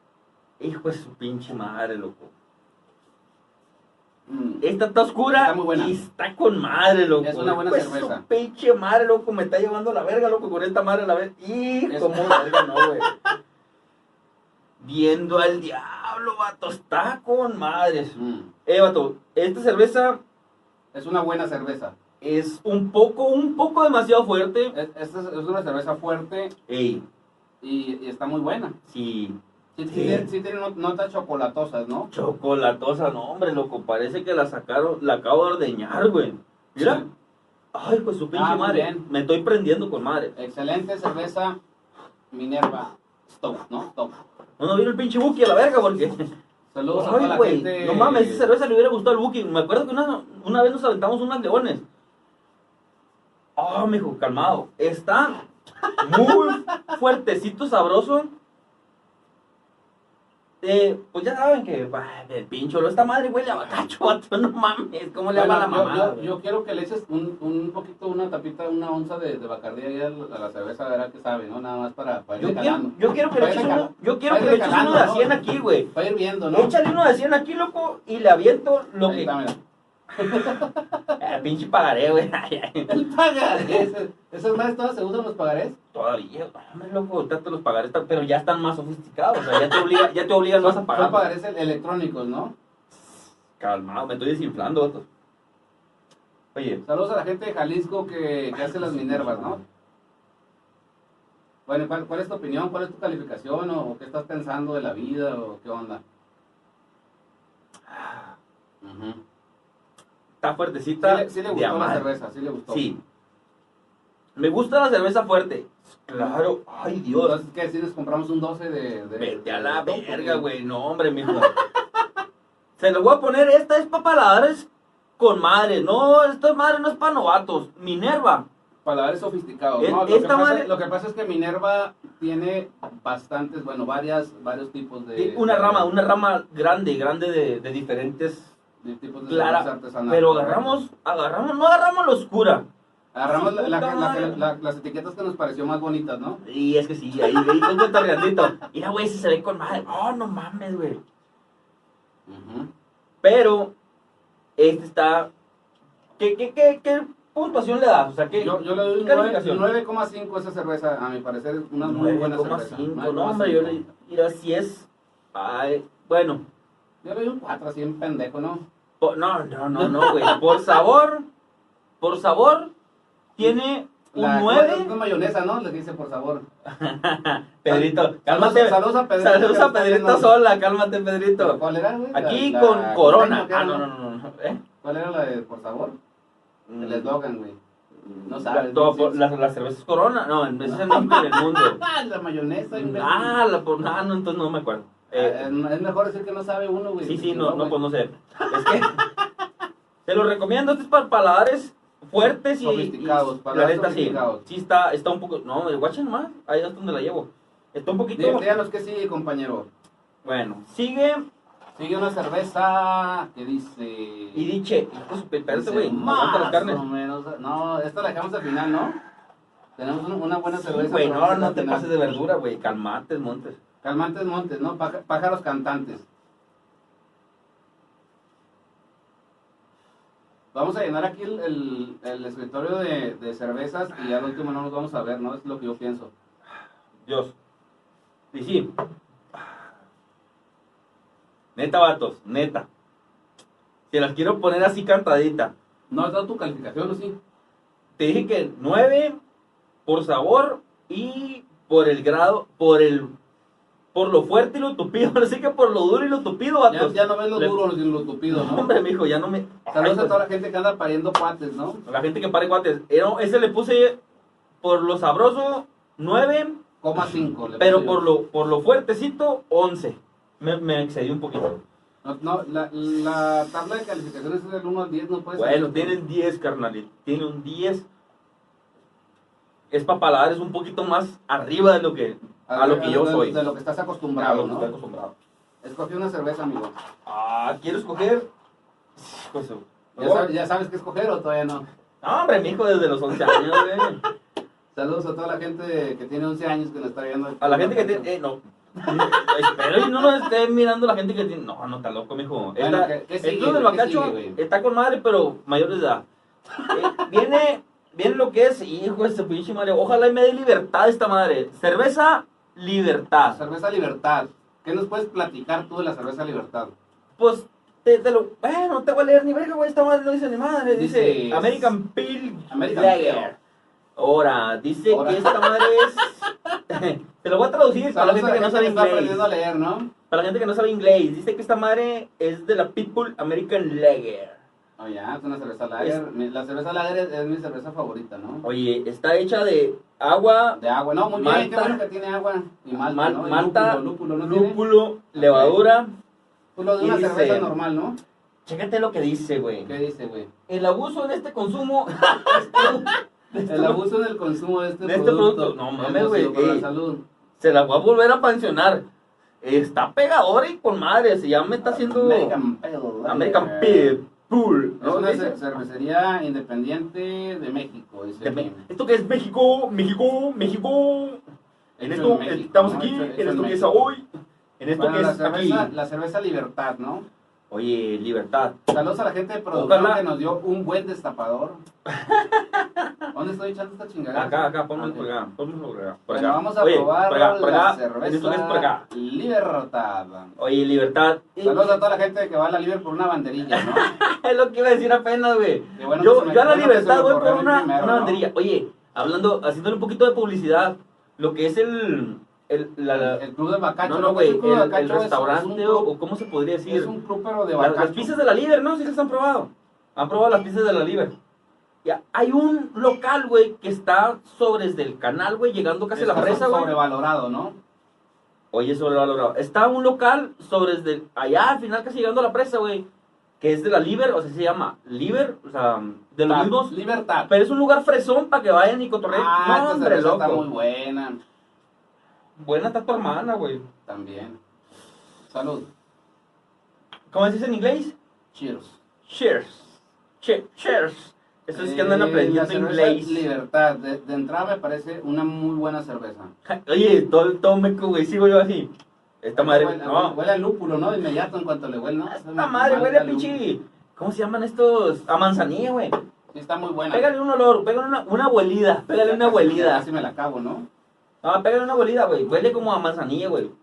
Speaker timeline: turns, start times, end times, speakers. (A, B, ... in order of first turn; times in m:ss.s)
0:00.6-0:02.3 A
0:04.3-0:04.6 B
0:04.6-0:13.1 A
0:05.3-0:06.0 B
0:07.2-0:08.2 B
0:11.9-0:12.8 B
0:14.8-0:20.2 A
0:18.2-0:18.5 B
0:20.9-0:22.0 B
0:22.2-0:24.7 A
0:24.7-0:26.5 B
0:26.7-0:27.0 A
0:27.6-0:28.7 B
0:28.9-0:29.4 A
0:29.8-0:32.1 B
0:29.9-0:30.3 A
0:32.1-0:37.0 A
0:36.8-0:37.1 B
0:37.7-0:40.3 A
0:38.3-0:39.0 B
0:40.4-0:41.6 B
0:42.3-0:44.2 B
0:44.6-0:46.3 A
0:46.7-0:48.5 B
0:46.9-0:51.8 A
0:53.6-0:55.4 A
0:56.0-0:58.3 A
1:00.6-1:06.3 A
1:05.3-1:16.8 B
1:12.4-1:15.9 A
1:16.5-1:19.3 A
1:19.1-1:19.6 B
1:20.2-1:21.2 B
1:20.2-1:20.6 A
1:21.2-1:22.9 A
1:22.9-1:25.8 B
1:23.6-1:23.9 A
1:25.9-1:31.2 A
1:30.6-1:32.5 B
1:32.9-1:35.1 A
1:36.5-1:36.8 A
1:36.8-1:39.6 B
1:38.5-1:39.6 A
1:41.7-1:46.0 B
1:47.9-1:48.4 A
1:48.8-1:49.2 B
1:50.4-1:52.1 A
1:51.0-1:52.9 B
1:52.7-1:53.0 A
1:54.4-1:57.4 A
1:57.2-2:00.4 B
1:59.2-2:01.5 A
2:02.8-2:08.5 A
2:08.8-2:15.9 B
2:09.8-2:10.7 A
2:15.2-2:18.5 A
2:18.8-2:20.8 B
2:19.3-2:22.7 A
2:23.1-2:26.4 B
2:23.3-2:24.4 A
2:26.4-2:31.0 A
2:32.3-2:32.7 B
2:33.2-2:33.7 A
2:34.6-2:35.3 A
2:36.2-2:39.6 A
2:38.4-2:43.8 B
2:41.8-2:46.4 A
2:47.0-2:48.6 B
2:49.0-2:51.3 A
2:49.8-2:50.6 B
2:52.0-2:52.7 A
2:53.4-2:54.9 A
2:54.1-2:56.4 B
2:56.7-3:01.6 A
2:57.7-3:00.3 B
3:01.4-3:03.8 B
3:02.1-3:04.6 A
3:04.8-3:06.0 B
3:06.7-3:07.1 A
3:06.8-3:07.6 B
3:08.0-3:11.8 A
3:08.3-3:09.2 B
3:10.6-3:13.4 B
3:12.7-3:15.5 A
3:15.1-3:17.8 B
3:17.0-3:19.0 A
3:20.1-3:28.5 A
3:22.5-3:24.4 B
3:28.2-3:29.7 B
3:30.2-3:31.3 A
3:31.8-3:34.5 B
3:34.3-3:36.8 A
3:35.5-3:39.0 B
3:39.8-3:41.9 B
3:40.5-3:43.6 A
3:43.8-3:46.0 B
3:50.5-3:56.1 B
3:57.1-3:57.3 A
3:58.3-3:58.7 A
3:59.3-3:59.6 A
4:01.6-4:02.7 A
4:03.9-4:05.5 A
4:05.9-4:07.2 B
4:08.0-4:09.2 A
4:09.9-4:13.1 A
4:13.9-4:17.6 A
4:16.7-4:18.8 B
4:18.3-4:20.2 A
4:19.7-4:21.8 B
4:21.9-4:24.0 A
4:24.6-4:26.6 A
4:26.8-4:28.0 B
4:27.6-4:31.6 A
4:32.0-4:36.0 B
4:35.4-4:37.9 A
4:39.7-4:43.4 A
4:42.5-4:44.7 B
4:44.2-4:45.1 A
4:45.6-4:46.8 B
4:47.1-4:48.3 A
4:49.0-4:50.3 A
4:50.0-4:51.6 B
4:52.0-4:54.0 A
4:54.7-4:58.1 B
4:57.4-5:06.0 A
4:58.8-4:59.3 B
5:02.6-5:04.4 B
5:06.7-5:13.4 A
5:13.2-5:16.7 B
5:17.2-5:23.4 A
5:20.7-5:21.7 B
5:22.5-5:23.3 B
5:24.0-5:29.3 A
5:24.9-5:26.1 B
5:27.9-5:29.9 B
5:30.1-5:34.4 A
5:34.8-5:38.4 B
5:38.4-5:40.6 A
5:40.6-5:44.6 B
5:41.1-5:41.8 A
5:42.8-5:45.9 A
5:45.1-5:45.6 B
5:46.6-5:48.0 B
5:46.8-5:47.5 A
5:48.5-5:49.7 A
5:49.6-5:50.3 B
5:50.5-5:53.8 A
5:52.3-5:52.8 B
5:53.4-5:57.0 B
5:54.8-5:56.6 A
5:57.4-5:58.8 A
5:59.4-6:02.4 A
6:01.6-6:04.0 B
6:03.1-6:05.4 A
6:04.8-6:08.6 B
6:08.2-6:11.2 A
6:11.8-6:13.9 B
6:11.8-6:14.0 A
6:14.6-6:15.7 A
6:14.8-6:17.1 B
6:17.5-6:18.6 A
6:18.7-6:21.6 B
6:19.5-6:20.0 A
6:21.9-6:22.9 A
6:23.1-6:25.1 B
6:24.1-6:28.8 A
6:26.1-6:30.4 B
6:30.4-6:31.7 A
6:31.4-6:33.9 B
6:33.5-6:43.2 A
6:35.8-6:38.2 B
6:42.9-6:45.9 B
6:43.8-6:46.9 A
6:46.7-6:48.1 B
6:47.6-6:51.1 A
6:51.8-6:56.7 A
6:56.0-6:57.6 B
6:58.5-7:02.8 A
7:03.4-7:06.7 A
7:06.3-7:07.3 B
7:07.3-7:10.4 A
7:09.1-7:11.2 B
7:12.4-7:13.6 A
7:13.9-7:14.4 B
7:15.3-7:15.7 B
7:17.1-7:18.0 A
7:18.3-7:18.8 B
7:19.1-7:23.3 A
7:21.5-7:26.3 B
7:26.5-7:28.7 A
7:29.2-7:30.2 A
7:29.4-7:33.4 B
7:32.1-7:36.0 A
7:36.3-7:37.1 B
7:36.9-7:39.8 A
7:39.0-7:40.7 B
7:41.2-7:43.5 A